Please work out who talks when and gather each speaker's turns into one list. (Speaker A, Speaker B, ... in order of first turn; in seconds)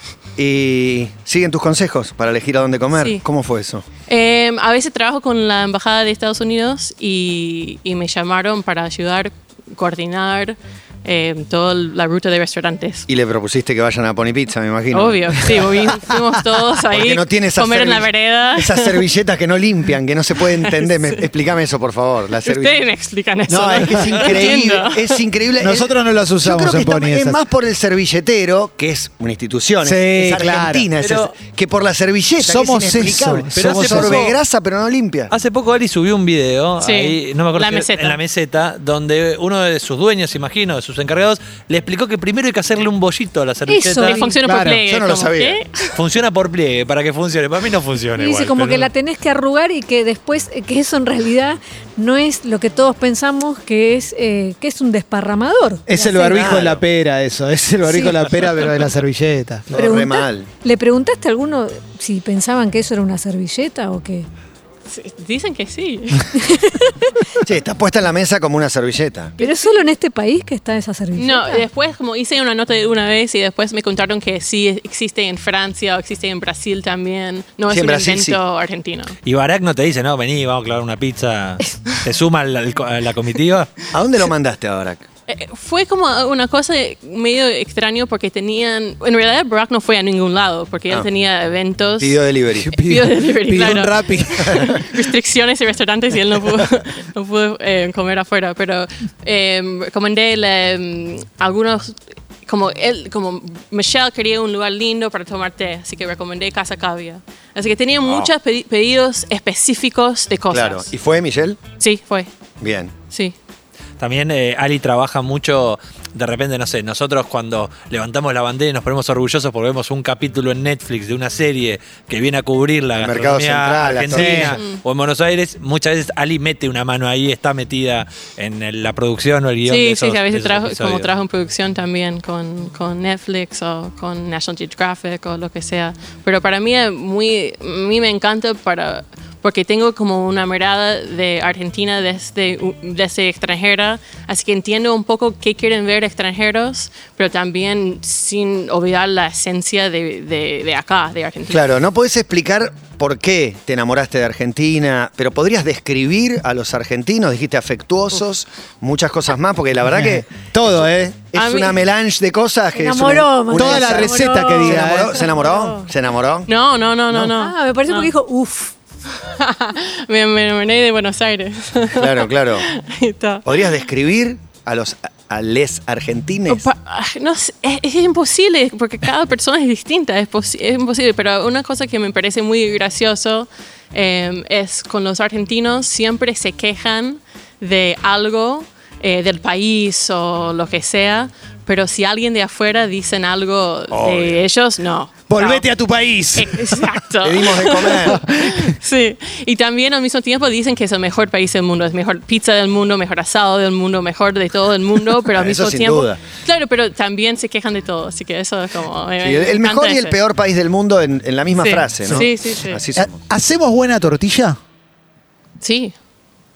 Speaker A: 0.4-3.9, 13.1-15.9, 16.9-22.8, 23.5-35.3, 44.9-45.6, 56.2-56.8, 59.7-60.5, 67.4-69.3, 77.7-78.4, 83.9-85.0, 92.0-92.8, 94.5-94.8, 110.5-111.6, 112.6-112.9, 123.0-124.6, 151.5-160.3, 161.3-166.5, 171.9-172.7, 173.4-176.7, 193.9-194.4, 197.2-198.2, 205.2-206.2, 209.2-213.2
Speaker B: 4.1-13.1, 14.9-19.0, 20.6-21.2, 22.4-25.2, 36.8-38.2, 44.0-46.0, 64.9-66.4, 69.4-69.8, 71.2-79.2, 85.3-110.9, 111.8-112.3, 129.7-151.7, 161.3-161.8, 166.5-168.1, 169.2-173.7, 176.5-195.7, 196.3-210.2, 211.6-212.8, 215.6-215.9
Speaker C: 25.6-27.4, 29.8-30.9, 32.4-34.3, 44.5-44.8, 55.9-60.0, 92.7-94.8, 124.1-124.6, 159.9-161.2, 163.5-165.2, 195.3-197.0, 198.0-198.7, 212.9-214.6
Speaker D: 31.0-31.3, 33.5-34.4, 35.3-44.2, 45.9-48.9, 79.2-83.8, 114.0-131.1
Speaker E: 43.7-44.4, 48.2-56.5, 57.9-58.2, 59.8-64.3, 66.4-67.1, 69.4-71.7, 162.8-165.5, 167.3-168.7